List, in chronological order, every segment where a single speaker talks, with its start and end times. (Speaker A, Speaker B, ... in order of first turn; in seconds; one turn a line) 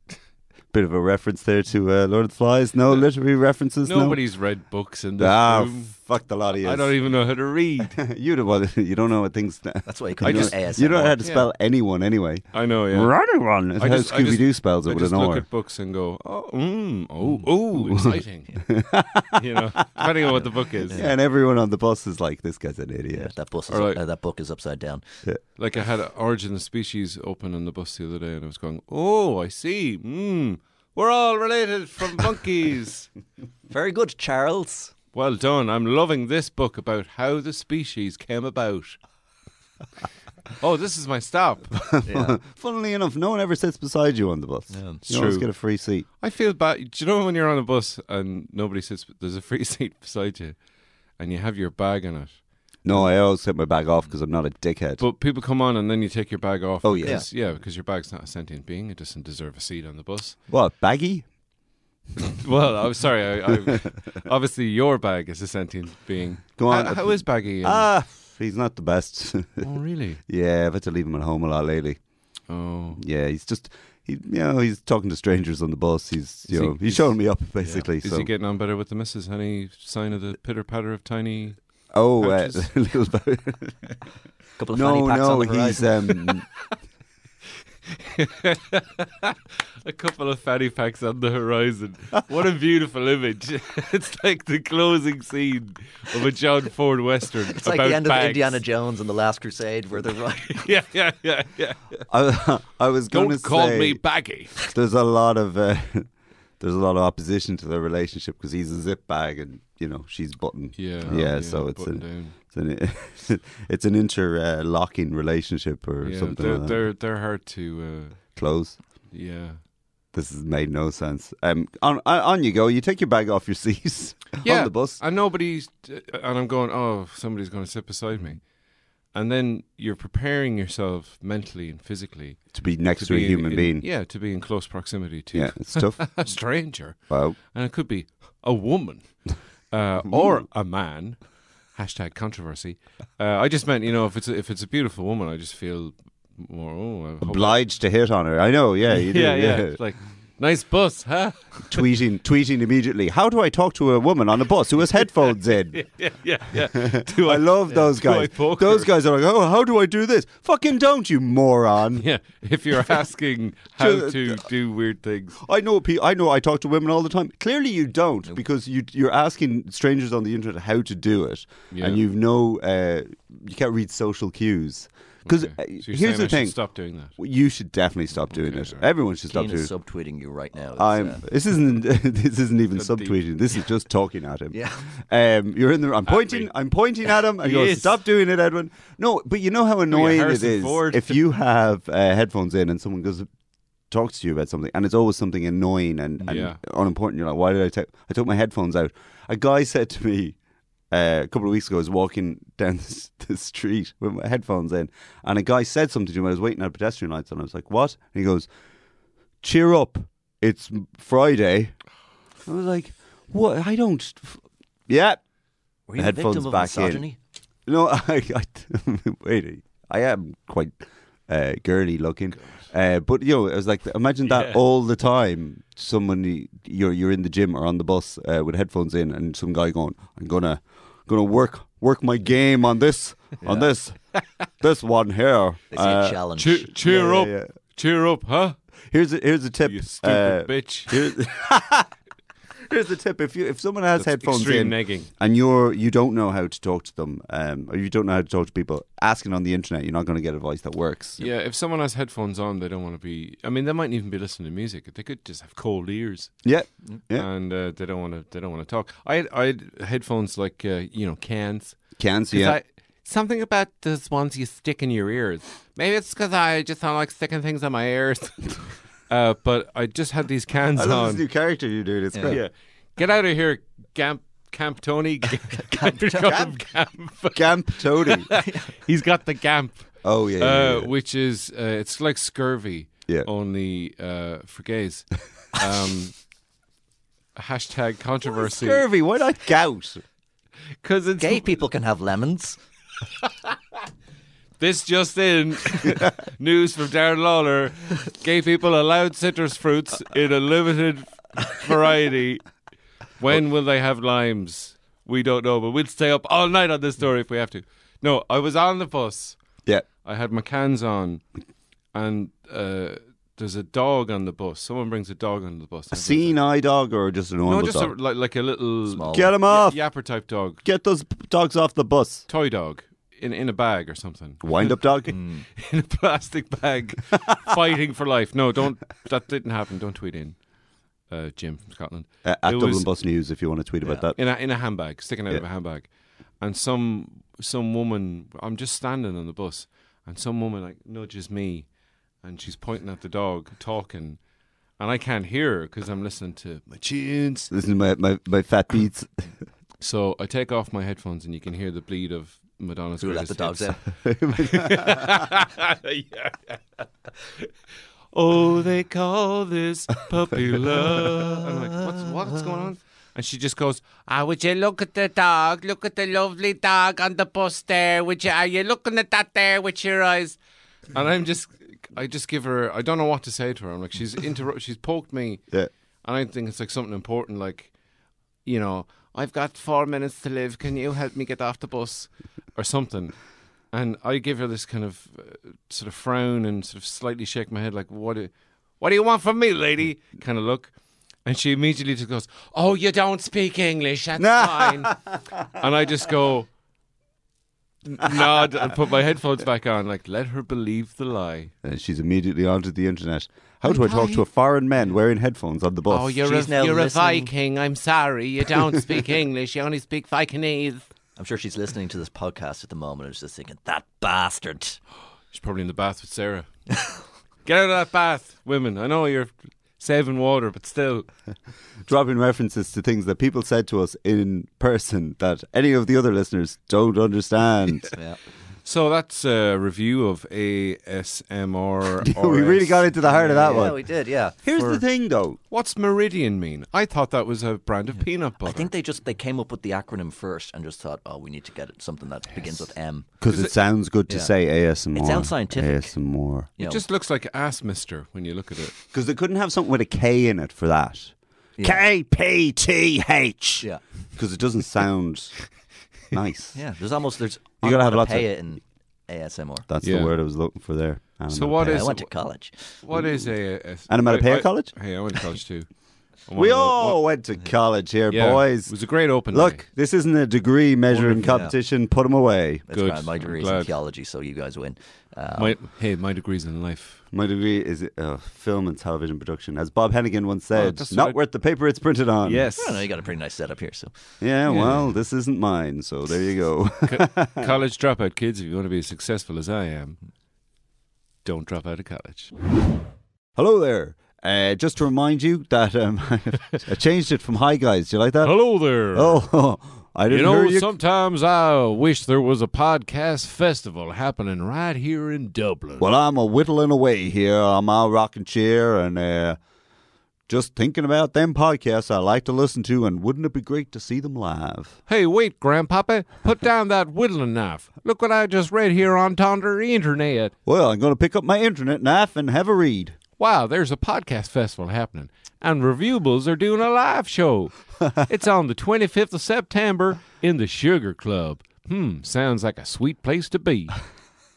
Speaker A: 0.7-4.2
Speaker B: 3.8-5.9
Speaker A: 5.2-7.0
Speaker B: 6.6-7.9
Speaker A: 7.9-15.4
Speaker C: 9.9-11.2
Speaker B: 10.2-10.5
Speaker B: 11.2-11.5
Speaker B: 12.5-13.1
Speaker B: 13.8-18.7
Speaker A: 17.7-20.1
Speaker B: 19.3-21.1
Speaker C: 20.9-21.1
Speaker A: 20.9-23.3
Speaker C: 23.1-25.0
Speaker B: 23.7-24.0
Speaker B: 25.6-33.1
Speaker C: 33.7-34.9
Speaker B: 35.1-39.0
Speaker B: 40.6-41.8
Speaker A: 41.9-46.0
Speaker C: 42.0-42.4
Speaker C: 44.7-45.0
Speaker B: 45.1-45.5
Speaker B: 46.2-50.6
Speaker B: 51.2-52.4
Speaker A: 52.8-55.0
Speaker B: 55.0-60.4
Speaker A: 56.8-57.2
Speaker A: 60.5-61.2
Speaker B: 62.2-67.9
Speaker A: 66.6-69.7
Speaker B: 69.6-70.2
Speaker A: 70.2-72.0
Speaker B: 72.5-73.0
Speaker A: 73.0-78.3
Speaker B: 76.5-77.0
Speaker B: 78.0-81.6
Speaker A: 81.9-84.0
Speaker B: 82.2-82.7
Speaker C: 84.6-86.2
Speaker A: 84.7-86.5
Speaker B: 87.8-98.6
Speaker C: 97.5-100.7
Speaker B: 100.5-102.0
Speaker A: 102.1-104.0
Speaker B: 103.1-104.7
Speaker A: 104.6-116.8
Speaker B: 110.8-112.3
Speaker B: 116.0-118.2
Speaker A: 118.3-118.8
Speaker B: 119.1-119.6
Speaker A: 120.1-125.0
Speaker B: 124.4-128.4
Speaker B: 129.1-139.0
Speaker A: 132.5-133.8
Speaker A: 135.3-136.1
Speaker A: 137.1-137.4
Speaker B: 139.7-141.2
Speaker B: 141.8-147.6
Speaker A: 147.2-149.8
Speaker B: 148.9-151.8
Speaker A: 151.7-155.8
Speaker B: 155.0-158.9
Speaker A: 156.6-162.0
Speaker B: 161.9-165.4
Speaker A: 163.8-164.5
Speaker A: 165.4-176.6
Speaker B: 171.7-172.0
Speaker B: 175.2-177.1
Speaker A: 177.1-179.7
Speaker B: 178.3-178.9
Speaker C: 179.3-181.2
Speaker A: 180.8-193.3
Speaker B: 182.7-183.2
Speaker C: 184.5-184.9
Speaker B: 186.1-186.5
Speaker B: 187.4-187.9
Speaker B: 189.9-191.2
Speaker A: 193.9-200.4
Speaker B: 196.2-196.6
Speaker A: 200.9-208.5
Speaker A: 209.4-211.8
Speaker A: 212.4-215.2
Speaker C: 215.9-217.2
Speaker A: 216.0-217.0
Speaker A: 217.7-234.0
Speaker B: 224.3-224.6
Speaker C: 233.4-233.7
Speaker A: 234.6-236.2
Speaker C: 235.7-236.7
Speaker B: 236.4-238.6
Speaker A: 236.8-237.5
Speaker A: 238.9-241.9
Speaker B: 239.6-241.1
Speaker A: 242.7-251.3
Speaker B: 243.9-245.1
Speaker B: 251.2-256.4
Speaker A: 256.4-257.3
Speaker B: 257.1-268.5
Speaker A: 262.0-262.6
Speaker B: 269.1-271.2
Speaker A: 270.8-272.4
Speaker C: 272.1-272.4
Speaker B: 272.3-286.2
Speaker C: 275.6-276.5
Speaker A: 277.3-278.3
Speaker C: 278.4-278.7
Speaker A: 280.0-280.9
Speaker B: 287.3-288.8
Speaker A: 288.3-290.0
Speaker B: 290.8-291.5
Speaker C: 291.2-292.6
Speaker B: 293.2-293.6
Speaker B: 294.6-302.4
Speaker B: 303.2-309.4
Speaker B: 310.0-311.2
Speaker B: 311.9-316.4
Speaker A: 315.9-317.9
Speaker B: 317.4-320.6
Speaker C: 318.9-319.3
Speaker A: 319.1-319.8
Speaker A: 320.6-322.2
Speaker B: 322.3-330.4
Speaker A: 324.4-325.1
Speaker C: 325.1-325.4
Speaker B: 331.1-332.9
Speaker A: 332.2-334.2
Speaker B: 334.1-335.9
Speaker B: 336.4-341.7
Speaker B: 342.2-344.2
Speaker B: 344.8-347.5
Speaker A: 347.5-349.2
Speaker B: 349.8-353.8
Speaker C: 353.0-353.8
Speaker A: 354.0-355.2
Speaker B: 354.3-357.5
Speaker B: 358.1-370.4
Speaker B: 370.9-375.4
Speaker B: 376.0-377.7
Speaker B: 378.4-383.1
Speaker B: 383.7-390.7
Speaker B: 391.2-396.5
Speaker A: 394.2-395.2
Speaker B: 397.9-401.5
Speaker A: 401.6-406.2
Speaker B: 403.6-404.2
Speaker B: 405.9-410.9
Speaker C: 406.2-407.3
Speaker C: 411.1-414.8
Speaker B: 415.3-416.5
Speaker B: 417.4-421.1
Speaker A: 421.9-427.9
Speaker C: 427.9-428.2
Speaker B: 428.6-433.8
Speaker A: 432.0-433.8
Speaker C: 433.0-434.4
Speaker A: 434.4-435.4
Speaker B: 434.6-434.8
Speaker B: 435.5-438.7
Speaker C: 438.4-443.1
Speaker A: 443.2-446.5
Speaker B: 443.3-443.5
Speaker C: 444.9-445.9
Speaker C: 446.6-446.8
Speaker B: 446.6-448.8
Speaker A: 448.9-455.3
Speaker A: 456.1-456.6
Speaker C: 456.6-459.7
Speaker A: 457.6-458.3
Speaker A: 459.7-461.9
Speaker B: 459.8-460.1
Speaker B: 461.3-462.1
Speaker C: 461.6-462.8
Speaker B: 462.8-465.7
Speaker A: 462.9-463.2
Speaker A: 463.9-464.7
Speaker B: 466.2-467.0
Speaker A: 466.4-468.7
Speaker B: 468.1-469.6
Speaker A: 469.3-472.6
Speaker B: 470.9-471.4
Speaker C: 471.2-471.5
Speaker C: 472.7-475.6
Speaker B: 472.7-473.7
Speaker B: 475.4-477.0
Speaker A: 477.1-482.5
Speaker B: 480.5-481.2
Speaker B: 482.2-482.9
Speaker C: 482.6-483.9
Speaker A: 484.2-487.5
Speaker B: 484.4-484.9
Speaker B: 486.9-490.0
Speaker B: 491.2-492.3
Speaker A: 493.4-498.4
Speaker B: 498.2-499.2
Speaker A: 498.9-500.7
Speaker B: 500.1-505.9
Speaker A: 505.8-509.4
Speaker A: 510.3-514.8
Speaker B: 514.9-520.3
Speaker A: 520.5-523.0
Speaker B: 523.2-533.7